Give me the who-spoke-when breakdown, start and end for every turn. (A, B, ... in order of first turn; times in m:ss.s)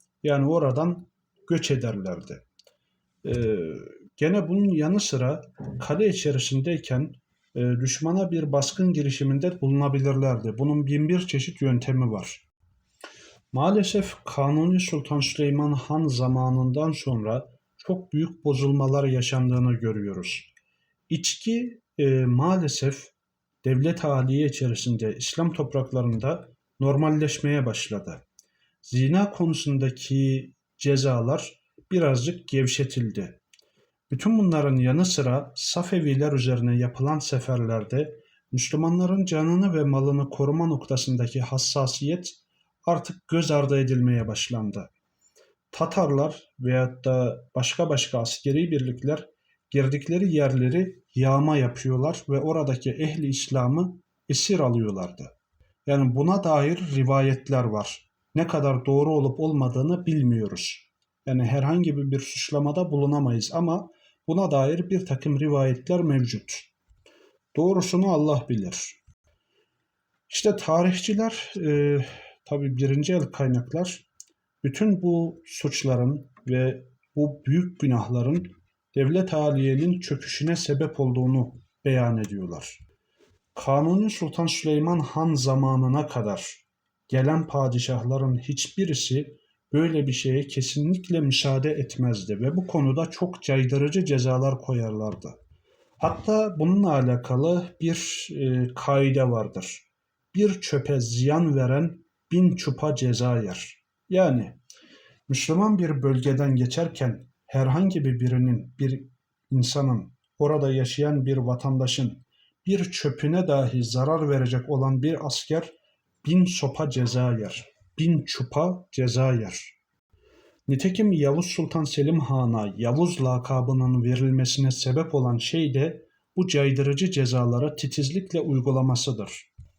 0:00.2-0:02.4 A
0:03.2-0:12.4 A
0:13.5-0:20.5 A
0:21.1-0:28.2 A
0:28.8-0:33.4 A
0:34.1-0:44.9 A
0:45.7-0:55.3 A
0:55.8-1:06.7 A
1:07.5-1:09.0 A
1:10.3-1:14.0 A
1:14.6-1:22.8 A
1:23.5-1:35.4 A
1:36.0-1:44.6 A
1:45.3-1:59.8 A
2:00.7-2:09.5 A